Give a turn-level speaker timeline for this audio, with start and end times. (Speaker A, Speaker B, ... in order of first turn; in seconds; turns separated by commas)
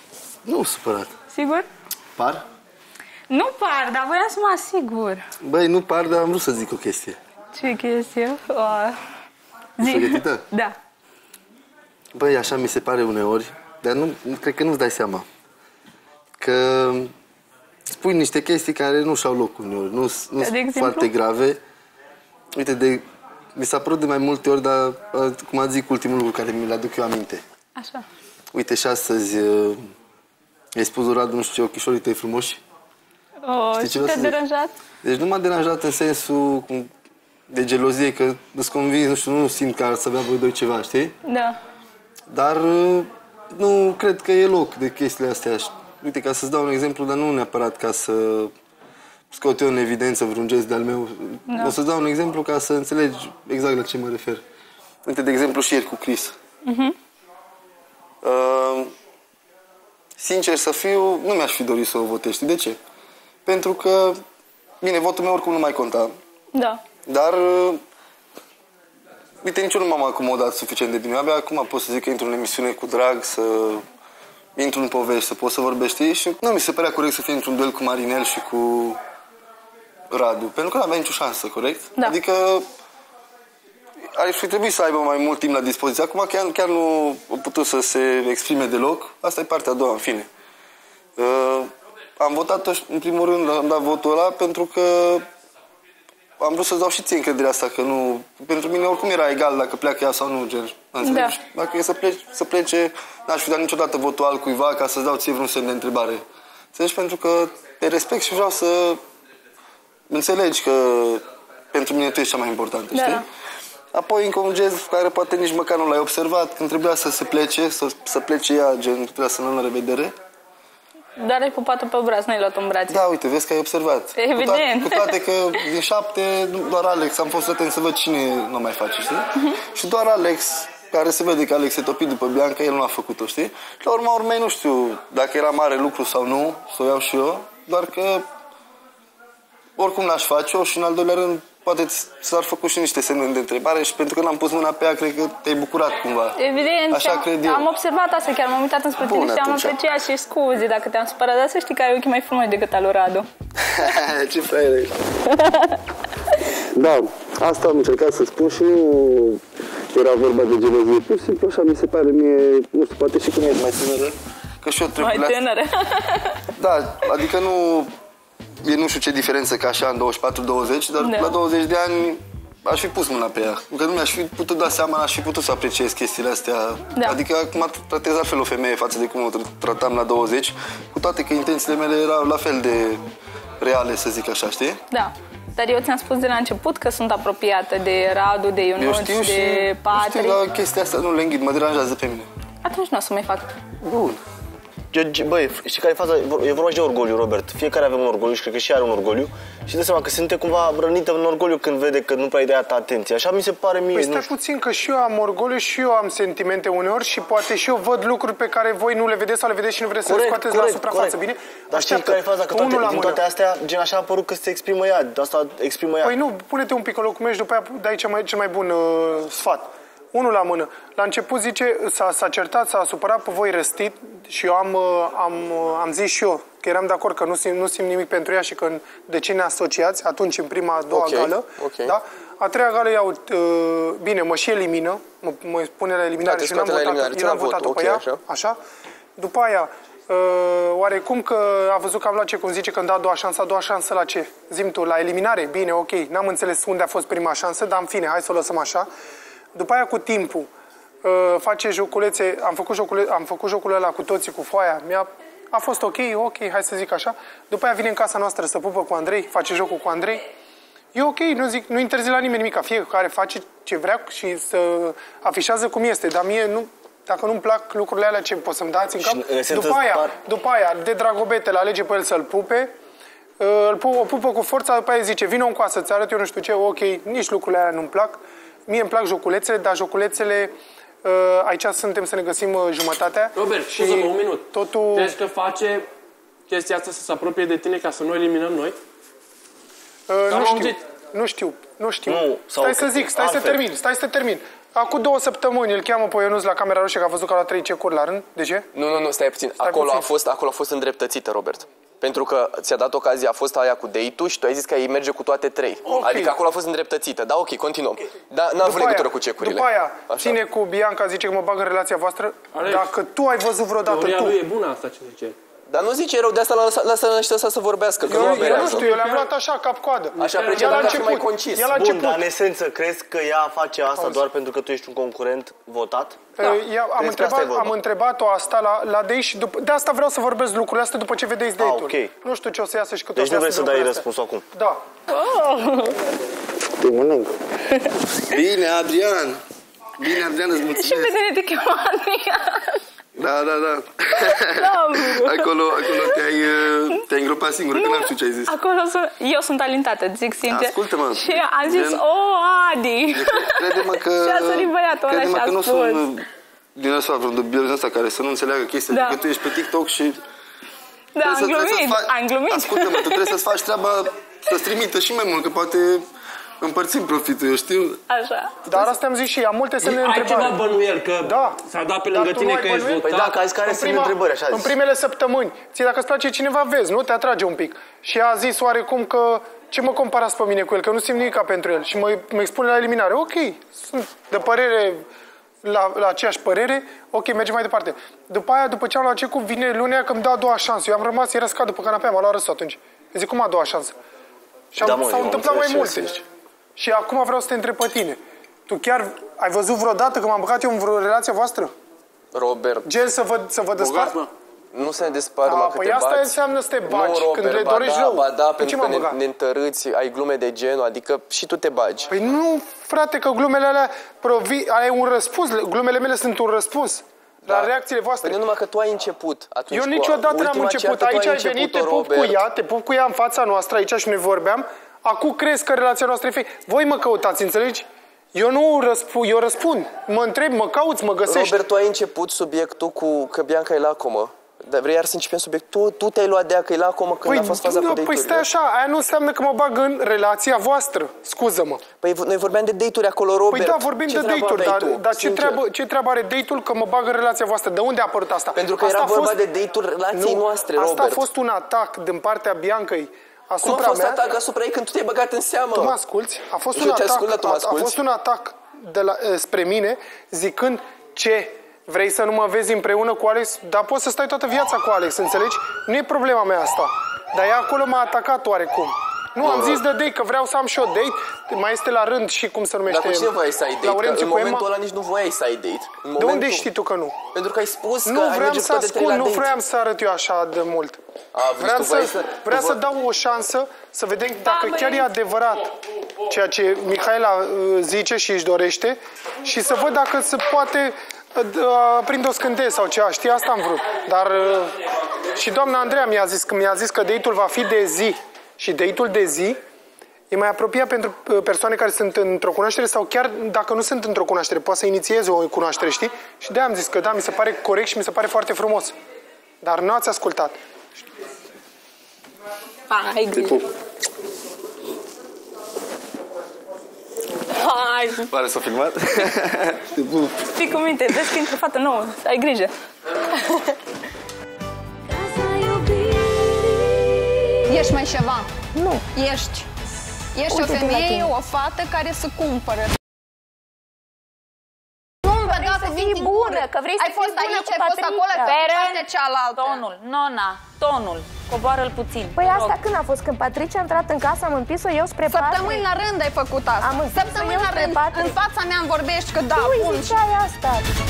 Speaker A: 0.4-1.1, Speaker B: 1.3-1.6, Speaker A: 2.1-2.4, Speaker B: 3.3-5.2, Speaker A: 5.4-7.2, Speaker B: 7.5-8.9, Speaker B: 9.8-10.7, Speaker A: 9.8-10.4, Speaker A: 12.1-15.2, Speaker A: 16.4-17.1, Speaker A: 17.9-21.6, Speaker B: 20.4-21.1, Speaker A: 22.6-23.0, Speaker A: 23.5-27.4, Speaker B: 27.8-28.0, Speaker A: 28.5-29.8, Speaker A: 30.8-32.6, Speaker B: 33.4-34.7, Speaker A: 33.8-34.4, Speaker A: 35.0-36.9, Speaker A: 37.5-41.1, Speaker B: 41.2-41.5, Speaker A: 42.3-48.5, Speaker A: 49.3-54.4, Speaker B: 51.5-51.7, Speaker A: 55.0-56.4, Speaker B: 56.6-56.9, Speaker A: 58.2-58.9, Speaker A: 60.2-62.8, Speaker A: 63.5-64.2, Speaker A: 64.8-66.1, Speaker B: 66.5-66.8, Speaker A: 67.0-67.8, Speaker A: 69.4-73.8, Speaker A: 74.5-79.0, Speaker A: 80.1-82.6, Speaker A: 84.1-90.3, Speaker A: 91.2-95.2, Speaker A: 96.4-106.2, Speaker B: 101.0-101.3, Speaker A: 106.7-109.0, Speaker A: 110.1-113.2, Speaker B: 112.9-113.2, Speaker A: 113.9-120.1, Speaker B: 121.2-123.0, Speaker A: 122.9-138.2, Speaker B: 124.2-125.1, Speaker A: 139.8-146.4, Speaker B: 146.4-153.2, Speaker A: 146.9-147.7, Speaker A: 149.0-149.8, Speaker A: 153.6-155.0, Speaker A: 156.7-159.4, Speaker A: 159.9-165.4, Speaker B: 165.0-166.4, Speaker A: 166.6-167.9, Speaker A: 168.6-183.0, Speaker B: 171.0-171.3, Speaker A: 183.6-184.8, Speaker B: 184.9-190.4, Speaker A: 188.8-192.3, Speaker B: 192.6-193.6, Speaker A: 193.8-194.2, Speaker C: 194.9-204.3, Speaker D: 203.9-213.2, Speaker C: 210.1-211.2, Speaker C: 211.7-216.2, Speaker D: 216.0-238.6, Speaker E: 230.9-231.9, Speaker E: 236.2-238.2, Speaker D: 239.2-248.9, Speaker D: 249.5-250.5, Speaker D: 251.0-260.2, Speaker D: 260.9-272.7, Speaker C: 269.0-270.1, Speaker D: 273.4-280.5, Speaker D: 281.0-285.2, Speaker F: 283.3-285.9, Speaker F: 286.5-288.8, Speaker D: 290.1-298.7, Speaker F: 290.3-290.8, Speaker C: 292.1-293.6, Speaker E: 298.7-310.4, Speaker D: 299.6-300.1, Speaker D: 305.9-306.4, Speaker D: 308.6-314.4, Speaker F: 312.5-312.9, Speaker F: 313.9-315.4, Speaker E: 315.7-318.9, Speaker D: 318.1-322.2, Speaker F: 318.2-319.3, Speaker E: 320.1-321.7, Speaker F: 320.2-321.1, Speaker C: 321.7-326.2, Speaker D: 323.9-324.2, Speaker D: 326.4-334.8, Speaker C: 327.0-327.7, Speaker C: 331.6-332.1, Speaker C: 333.1-334.4, Speaker B: 335.1-335.9, Speaker A: 336.8-337.3, Speaker A: 338.2-339.4, Speaker A: 340.0-341.1, Speaker B: 340.8-342.8, Speaker A: 343.1-348.5, Speaker B: 344.3-346.2, Speaker B: 347.7-356.0, Speaker A: 350.5-352.0, Speaker A: 353.1-360.2, Speaker B: 358.9-359.2, Speaker B: 361.1-363.4, Speaker A: 361.2-366.0, Speaker A: 366.6-368.0, Speaker B: 368.1-368.5, Speaker D: 368.6-385.0, Speaker F: 369.8-373.1, Speaker C: 373.1-374.7, Speaker D: 385.6-393.9, Speaker D: 394.7-396.2, Speaker C: 394.8-396.2, Speaker D: 396.8-401.7, Speaker E: 402.3-402.9, Speaker D: 402.8-404.3, Speaker F: 403.8-404.2, Speaker E: 404.7-412.1, Speaker D: 405.4-409.2, Speaker D: 412.1-418.4, Speaker E: 417.4-422.4, Speaker D: 419.7-431.6, Speaker E: 431.2-438.4, Speaker D: 437.2-441.8, Speaker E: 442.0-445.6, Speaker D: 443.5-449.4, Speaker E: 448.5-451.2, Speaker D: 450.1-454.2, Speaker E: 453.6-455.9, Speaker D: 455.7-474.7, Speaker E: 456.7-458.0, Speaker E: 469.4-469.8, Speaker E: 472.9-476.6, Speaker D: 476.2-477.2, Speaker E: 477.3-479.5, Speaker D: 478.0-481.0, Speaker E: 481.3-482.8, Speaker D: 481.6-485.7, Speaker D: 486.2-494.8, Speaker D: 495.3-499.6, Speaker D: 500.3-508.9, Speaker D: 509.6-510.5, Speaker B: 512.9-513.6, Speaker A: 513.3-513.6, Speaker B: 517.5-518.3, Speaker A: 518.3-520.5, Speaker B: 520.5-522.7, Speaker B: 525.1-527.8, Speaker G: 527.7-529.7, Speaker H: 528.7-529.0, Speaker G: 530.3-532.9, Speaker H: 530.5-531.3, Speaker G: 535.2-539.8, Speaker I: 535.5-542.8, Speaker H: 538.3-538.6, Speaker H: 542.3-545.9, Speaker G: 545.2-550.2, Speaker H: 546.8-548.4, Speaker H: 549.5-550.9